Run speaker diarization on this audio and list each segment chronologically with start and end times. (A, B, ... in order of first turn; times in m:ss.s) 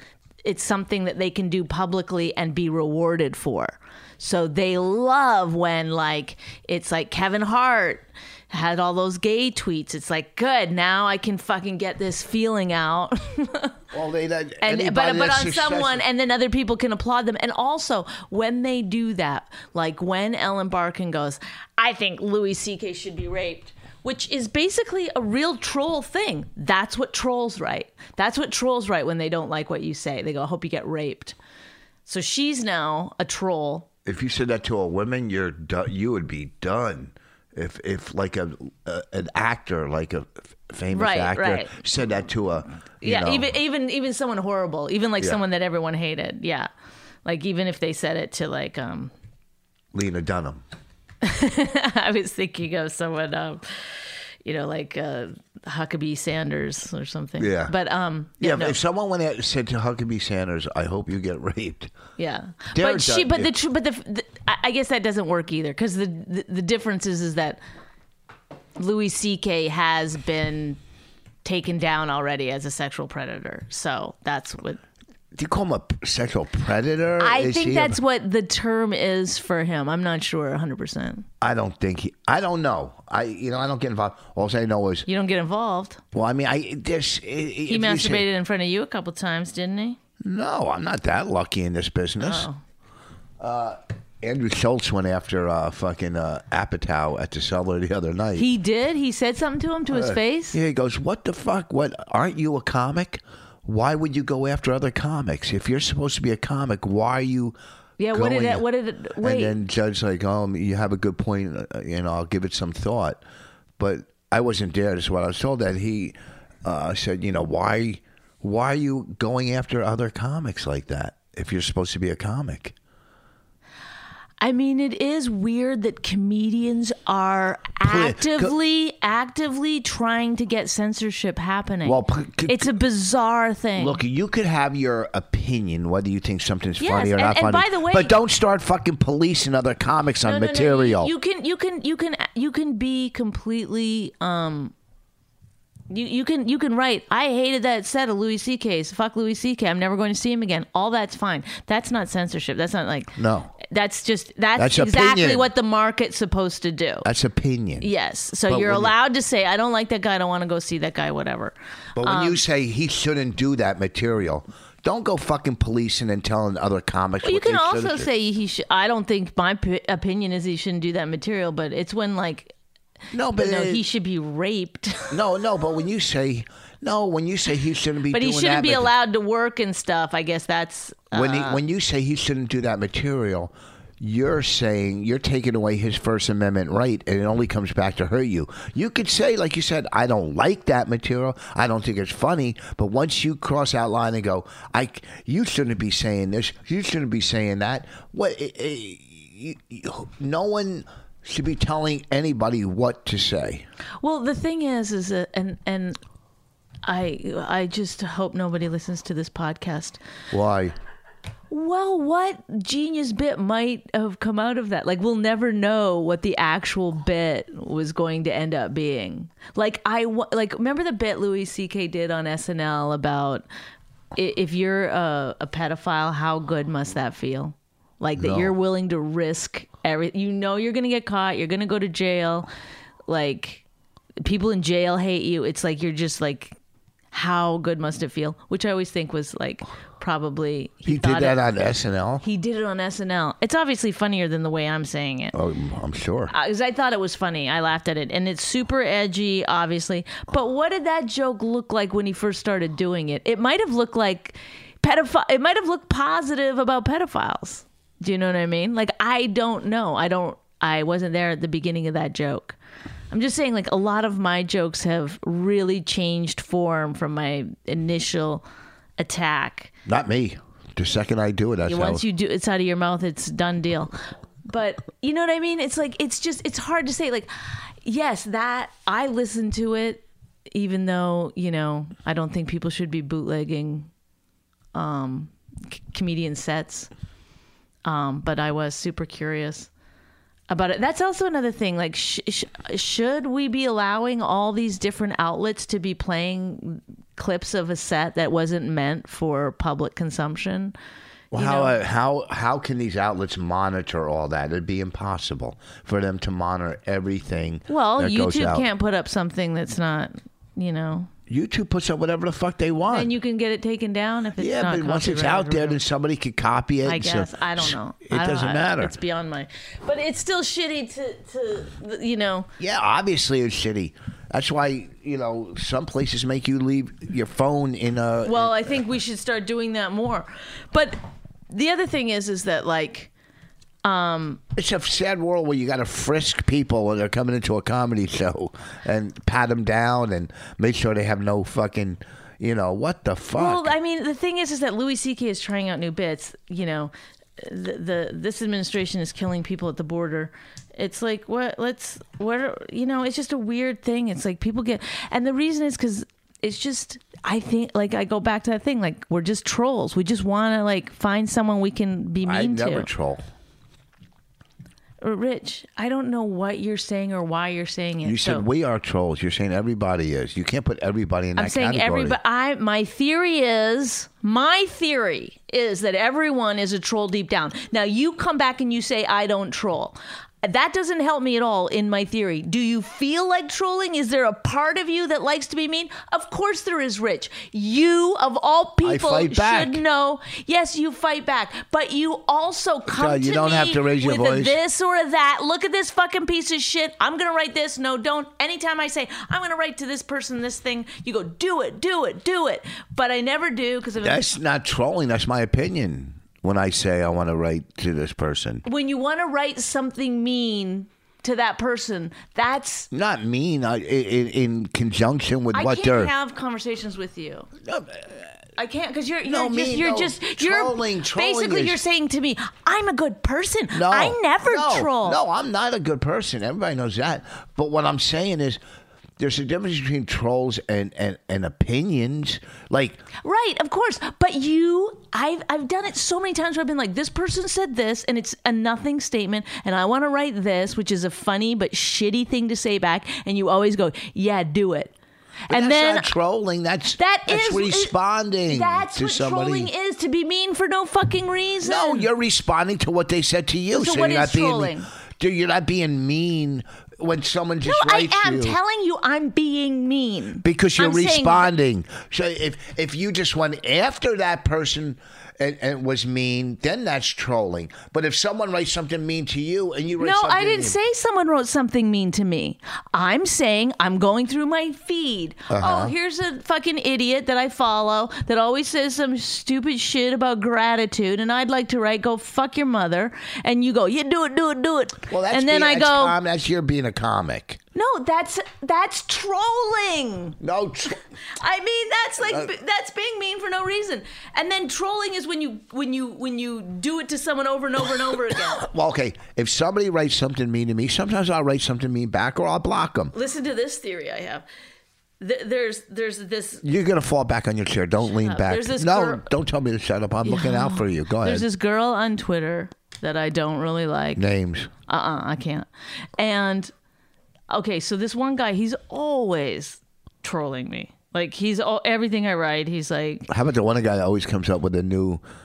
0:00.4-0:13.8 A
0:13.9-0:16.0 B
0:14.6-0:31.4 A
0:32.0-0:33.9 A
0:34.0-0:43.5 B
0:40.9-0:41.7 A
0:43.0-0:46.7 A
0:47.2-0:49.1 A
0:49.9-0:50.6 B
0:51.2-0:58.8 A
0:57.4-0:57.7 B
0:58.4-1:01.9 B
1:02.2-1:07.6 A
1:02.7-1:03.6 B
1:08.8-1:10.8 A
1:11.4-1:14.8 A
1:15.3-1:18.0 B
1:17.2-1:21.2 A
1:21.4-1:25.1 B
1:25.1-1:26.0 A
1:26.1-1:28.3 B
1:27.7-1:30.0 A
1:30.2-1:32.5 B
1:32.2-1:32.6 A
1:33.4-1:38.5 B
1:38.3-1:40.6 A
1:39.9-1:47.6 B
1:48.0-1:49.6 A
1:48.1-1:48.6 B
1:49.2-1:53.2 B
1:53.8-2:02.7 B
2:04.4-2:14.0 A
2:07.8-2:08.5 B
2:11.8-2:12.8 B
2:13.8-2:21.1 B
2:16.8-2:18.2 A
2:20.2-2:24.7 A
2:25.9-2:37.1 A
2:33.2-2:33.5 B
2:34.6-2:35.5 B
2:37.0-2:37.9 B
2:37.8-2:42.4 A
2:38.5-2:38.9 B
2:42.0-2:48.1 B
2:47.2-2:52.5 A
2:53.1-2:53.8 B
2:53.4-2:55.2 A
2:55.1-2:58.9 B
2:58.1-3:01.6 A
3:01.1-3:23.6 B
3:24.0-3:26.0 A
3:26.8-3:30.0 A
3:30.3-3:30.7 B
3:31.5-3:43.4 A
3:44.1-3:52.5 A
3:48.2-3:48.5 B
3:53.1-3:53.6 A
3:54.2-3:56.6 A
3:57.1-4:01.4 A
4:00.8-4:02.2 B
4:02.2-4:05.3 A
4:05.3-4:06.3 B
4:06.3-4:22.6 A
4:23.1-4:28.4 A
4:29.0-4:29.7 A
4:29.8-4:32.0 B
4:31.7-4:33.9 A
4:34.4-4:43.9 A
4:44.7-4:46.9 A
4:47.8-4:49.7 A
4:50.5-5:00.7 A
5:01.3-5:08.7 B
5:01.3-5:01.7 A
5:07.7-5:11.1 A
5:11.3-5:13.1 B
5:12.9-5:15.8 A
5:14.4-5:18.9 B
5:16.8-5:22.5 A
5:22.6-5:28.8 B
5:28.2-5:33.1 A
5:33.8-5:34.4 A
5:34.5-5:43.7 B
5:43.3-6:02.9 A
6:02.2-6:03.2 B
6:05.0-6:08.5 A
6:08.0-6:12.2 B
6:11.4-6:44.3 A
6:28.8-6:29.8 B
6:32.9-6:34.6 B
6:44.0-6:48.6 B
6:48.6-6:52.9 A
6:52.9-6:56.1 B
6:55.5-6:57.5 A
6:57.6-6:58.3 B
6:58.6-7:05.2 A
6:59.2-7:01.8 B
7:03.7-7:08.6 B
7:09.2-7:13.0 B
7:13.2-7:24.9 A
7:25.5-7:26.1 A
7:25.5-7:29.7 B
7:27.0-7:27.9 A
7:28.5-7:32.1 A
7:31.6-7:38.6 B
7:33.7-7:34.9 A
7:37.6-7:41.5 A
7:40.4-7:50.8 B
7:50.0-8:06.2 A
7:55.5-7:55.9 B
8:05.1-8:07.6 B
8:07.7-8:10.4 A
8:10.4-8:11.0 B
8:11.4-8:18.6 A
8:18.3-8:23.1 B
8:23.1-8:24.4 A
8:25.2-8:26.6 A
8:26.6-8:31.4 B
8:28.0-8:29.3 A
8:30.2-8:34.2 A
8:34.2-8:34.7 B
8:34.9-8:36.7 A
8:37.5-8:43.3 A
8:43.3-8:45.2 B